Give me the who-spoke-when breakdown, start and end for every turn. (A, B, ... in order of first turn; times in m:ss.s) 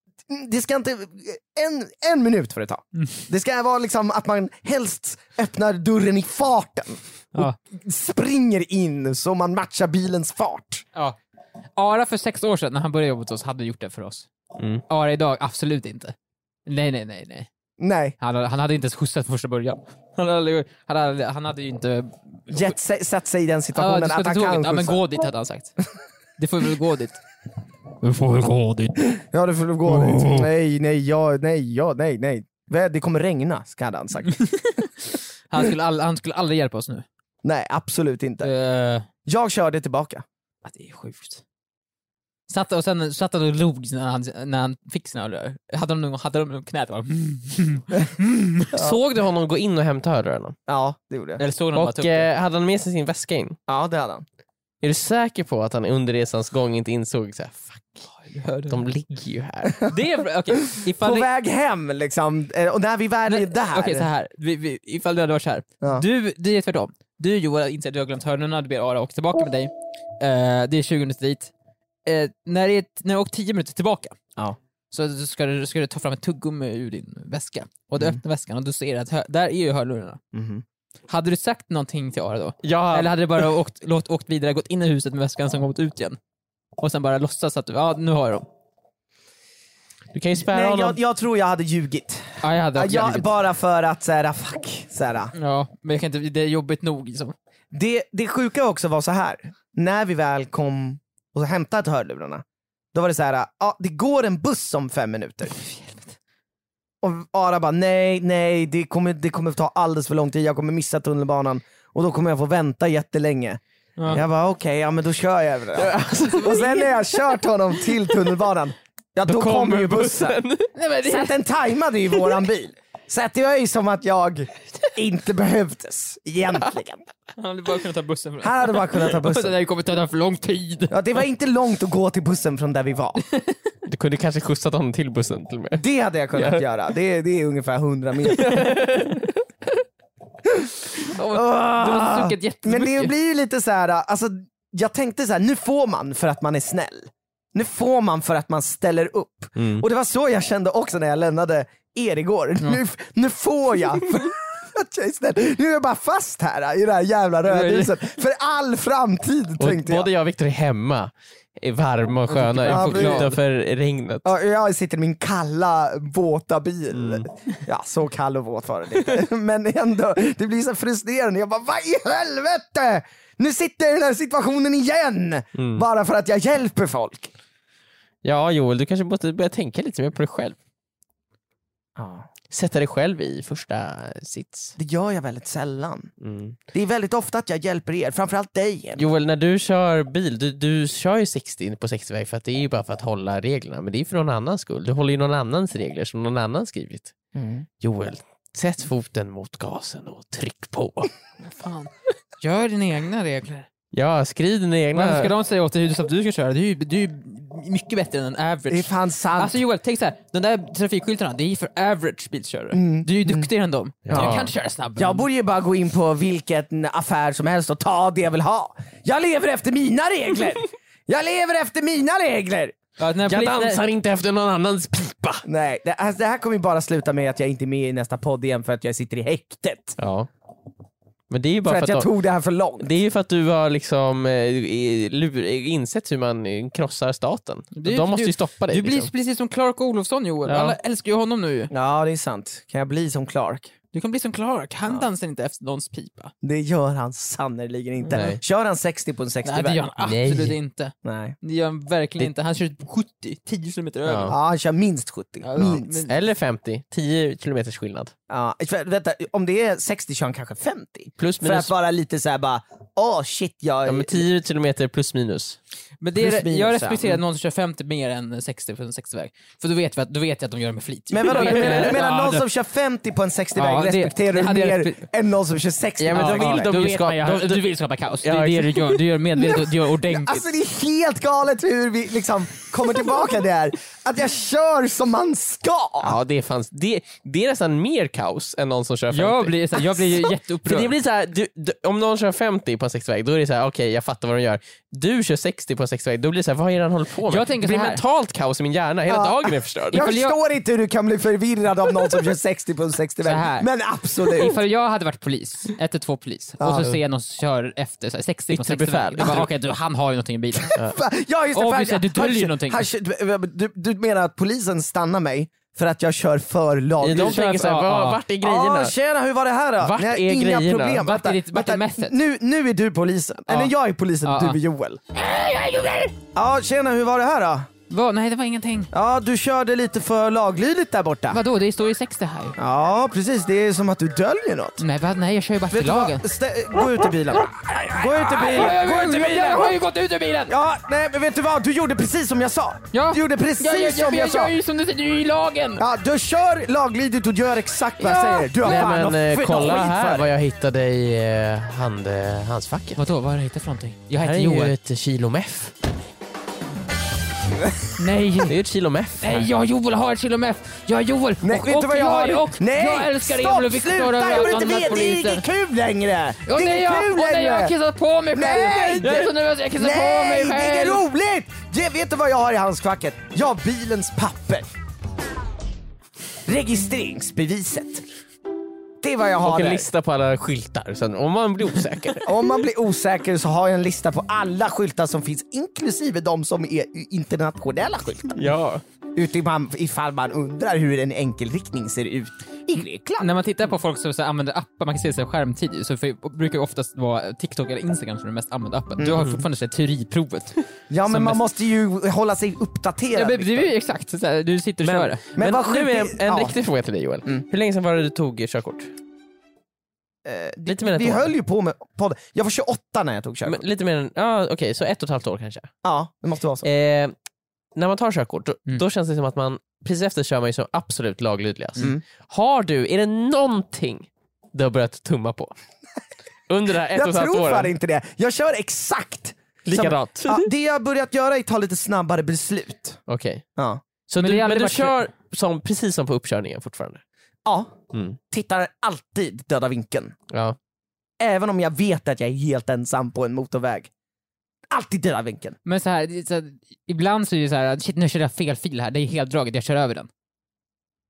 0:00.3-0:10.8 A
0:11.8-0:14.3 B
0:14.6-0:14.8 C
0:14.9-0:16.1 B
0:16.6-0:17.5 B
0:17.8-0:18.2 A
0:18.2-0:22.5 B
0:22.5-0:25.0 A
0:23.7-0:25.7 B
0:26.4-0:27.2 B
0:28.0-0:29.2 B
0:29.2-0:34.4 A
0:29.8-0:30.5 B
0:34.3-0:37.0 B
0:37.4-0:38.5 A
0:38.4-0:39.1 B
0:39.2-0:40.2 A
0:40.6-0:41.4 B
0:42.5-0:48.7 B
0:48.7-0:50.6 C
0:48.7-0:49.0 A
0:50.7-0:51.4 A
0:51.4-0:52.3 B
0:51.7-0:53.6 C
0:53.7-0:54.2 A
0:54.8-0:58.0 C
0:58.1-0:58.8 B
0:58.7-0:59.9 C
0:59.8-1:01.3 B
1:00.7-1:04.1 A
1:03.3-1:11.5 B
1:12.0-1:14.2 B
1:14.9-1:20.2 B
1:20.3-1:20.6 A
1:21.1-1:26.2 B
1:22.6-1:23.1 C
1:26.8-1:28.5 B
1:30.1-1:31.0 C
1:30.4-1:35.3 A
1:32.4-1:33.3 B
1:35.3-1:37.3 B
1:37.7-1:45.5 A
1:45.6-1:46.2 B
1:47.0-2:00.4 A
1:55.7-1:57.0 C
1:59.2-2:00.7 C
2:00.7-2:01.3 B
2:01.0-2:07.1 A
2:07.4-2:11.0 B
2:08.4-2:09.5 A
2:10.9-2:13.2 A
2:13.8-2:16.6 C
2:15.7-2:18.7 A
2:18.2-2:19.3 C
2:21.0-2:23.1 B
2:21.3-2:40.1 A
2:29.6-2:29.8 C
2:37.5-2:37.9 B
2:39.6-2:44.3 C
2:42.3-2:43.4 B
2:42.7-2:43.3 A
2:44.2-2:57.3 A
2:46.9-2:47.3 C
2:55.6-2:55.8 C
2:58.2-3:00.6 C
3:02.0-3:02.3 A
3:02.5-3:04.7 C
3:04.8-3:06.1 A
3:06.2-3:06.6 C
3:06.7-3:09.0 A
3:09.0-3:17.1 C
3:17.3-3:17.6 A
3:17.8-3:21.1 C
3:21.4-3:23.7 B
3:23.9-3:25.3 C
3:24.9-3:35.2 B
3:28.7-3:29.6 A
3:32.7-3:33.5 A
3:34.1-3:34.5 C
3:34.1-3:34.4 A
3:35.0-3:42.8 A
3:43.0-3:43.8 B
3:43.3-3:45.4 C
3:45.4-3:50.0 A
3:50.0-3:50.3 C
3:51.3-3:52.1 C
3:51.6-3:52.9 A
3:52.8-3:59.1 C
3:57.7-4:01.7 B
4:00.5-4:00.8 C
4:01.7-4:03.7 A
4:03.9-4:06.3 B
4:06.4-4:09.9 A
4:08.1-4:08.4 C
4:09.4-4:14.3 B
4:10.0-4:10.5 C
4:11.0-4:11.4 A
4:14.0-4:14.3 C
4:14.3-4:15.9 A
4:15.4-4:16.1 B
4:15.6-4:18.1 C
4:18.3-4:24.2 A
4:21.2-4:21.7 C
4:23.8-4:25.6 C
4:26.0-4:32.4 B
4:26.2-4:27.2 A
4:31.1-4:36.7 A
4:31.3-4:32.0 C
4:33.6-4:35.1 B
4:36.0-4:37.6 C
4:36.1-4:40.4 B
4:38.2-4:39.0 C
4:40.0-4:46.2 A
4:46.0-5:00.0 C
4:49.1-4:50.9 B
4:57.2-4:58.0 B
4:59.1-5:04.6 A
4:59.9-5:00.4 B
5:03.2-5:10.8 B
5:06.6-5:07.0 A
5:08.5-5:09.5 C
5:10.6-5:25.0 A
5:11.5-5:12.9 B
5:17.0-5:18.9 C
5:17.2-5:18.2 B
5:19.8-5:21.0 C
5:20.9-5:22.1 B
5:24.2-5:24.6 B
5:25.1-5:26.1 B
5:26.3-5:27.7 A
5:27.9-5:28.9 B
5:28.9-5:31.4 A
5:31.3-5:32.6 B
5:32.6-5:34.8 A
5:34.8-5:36.2 B
5:35.7-5:37.4 A
5:36.8-5:40.5 B
5:38.0-5:39.8 A
5:40.5-5:44.5 A
5:42.9-5:45.8 B
5:45.8-5:50.3 A
5:48.0-5:48.9 B
5:48.6-5:53.0 C
5:53.0-5:54.7 B
5:54.2-5:55.7 C
5:58.0-5:58.6 B
5:58.4-5:59.5 C
5:59.2-6:05.4 B
6:01.4-6:07.7 A
6:06.4-6:11.0 B
6:08.3-6:14.7 A
6:16.4-6:18.0 A
6:19.0-6:19.9 A
6:19.4-6:22.5 C
6:22.2-6:28.5 A
6:28.3-6:28.8 C
6:29.2-6:33.3 A
6:33.2-6:41.4 B
6:39.0-6:39.3 A
6:40.9-6:43.7 A
6:43.1-6:45.3 B
6:44.8-6:48.9 C
6:45.2-6:46.6 A
6:50.2-6:53.6 A
6:50.7-6:51.3 C
6:53.4-6:55.7 C
6:55.8-6:56.6 A
6:56.6-6:57.1 C
6:57.7-7:05.5 C
7:06.5-7:07.7 C
7:06.9-7:13.0 A
7:09.6-7:10.5 C
7:13.1-7:13.4 C
7:13.6-7:13.8 A
7:14.1-7:17.0 C
7:14.2-7:15.0 B
7:17.4-7:17.7 A
7:17.9-7:18.2 C
7:18.3-7:20.1 A
7:20.3-7:20.6 C
7:21.2-7:23.9 A
7:24.7-7:25.6 A
7:25.6-7:30.1 B